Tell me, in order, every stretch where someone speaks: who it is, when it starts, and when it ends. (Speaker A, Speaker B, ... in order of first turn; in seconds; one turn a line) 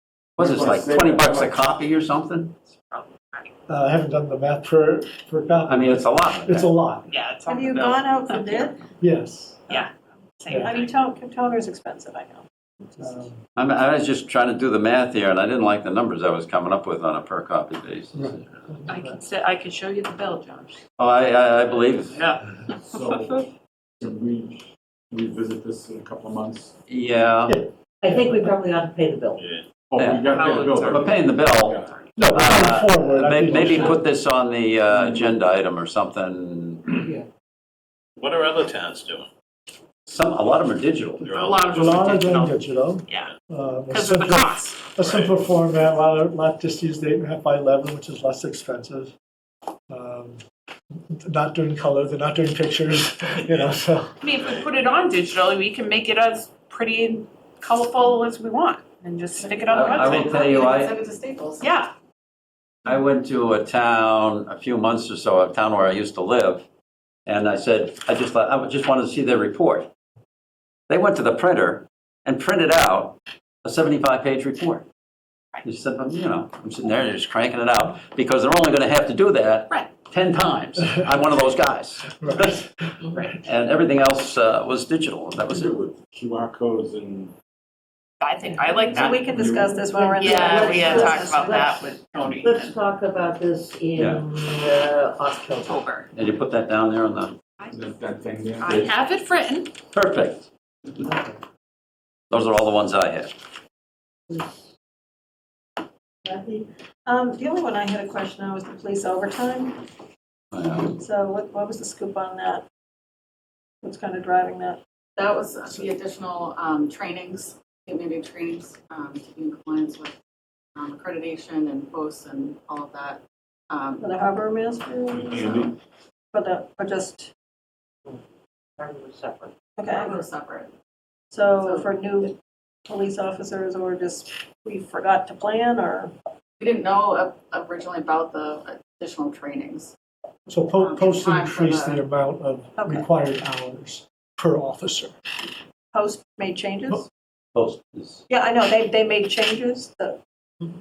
Speaker A: 0.4-2.5
Speaker B: 0.4-1.6
Speaker C: 2.8-3.5
Speaker D: 3.7-7.0
Speaker A: 5.7-6.7
Speaker C: 7.1-8.8
Speaker E: 7.5-8.8
Speaker D: 9.0-9.8
Speaker C: 9.7-10.9
Speaker E: 10.6-13.2
Speaker D: 13.0-13.4
Speaker A: 13.5-18.4
Speaker D: 18.1-19.2
Speaker C: 18.9-20.8
Speaker A: 21.0-22.2
Speaker C: 22.1-23.4
Speaker B: 22.8-23.4
Speaker B: 24.0-26.7
Speaker A: 26.9-27.6
Speaker D: 27.5-28.2
Speaker F: 28.0-29.4
Speaker G: 29.4-29.6
Speaker B: 29.9-31.9
Speaker A: 30.0-36.9
Speaker C: 30.2-32.0
Speaker D: 32.1-34.1
Speaker G: 38.2-39.3
Speaker A: 40.1-41.3
Speaker G: 41.2-41.9
Speaker C: 41.3-43.3
Speaker D: 41.7-49.1
Speaker C: 43.9-45.0
Speaker G: 45.0-45.4
Speaker D: 49.9-50.4
Speaker D: 51.1-54.1
Speaker C: 54.2-60.7
Speaker H: 59.4-61.7
Speaker A: 59.7-61.0
Speaker C: 61.6-61.9
Speaker A: 62.9-66.6
Speaker A: 67.2-69.9
Speaker A: 70.9-74.8
Speaker A: 75.6-82.6
Speaker D: 82.2-83.1
Speaker A: 83.3-85.8
Speaker B: 85.5-87.3
Speaker C: 88.2-89.2
Speaker E: 88.7-91.6
Speaker B: 88.9-90.6
Speaker F: 89.9-95.7
Speaker C: 90.2-92.8
Speaker A: 94.0-94.2
Speaker C: 95.6-96.1
Speaker A: 96.1-97.4
Speaker B: 97.7-99.0
Speaker C: 98.6-99.7
Speaker A: 99.9-100.5
Speaker F: 101.0-101.3
Speaker A: 102.3-103.3
Speaker F: 104.3-104.6
Speaker F: 106.3-106.6
Speaker E: 107.0-109.8
Speaker A: 110.5-111.0
Speaker E: 111.0-112.6
Speaker E: 113.8-114.8
Speaker H: 115.2-120.2
Speaker H: 120.7-124.1
Speaker E: 124.0-125.7
Speaker B: 125.1-125.7
Speaker E: 126.3-127.3
Speaker F: 128.8-129.5
Speaker E: 129.8-130.2
Speaker H: 129.9-130.7
Speaker E: 131.3-132.3
Speaker H: 131.5-132.3
Speaker E: 132.9-136.1
Speaker H: 136.6-139.9
Speaker D: 140.5-145.1
Speaker H: 140.8-142.0
Speaker E: 142.8-143.1
Speaker E: 145.9-147.1
Speaker A: 147.5-148.2
Speaker E: 148.3-150.2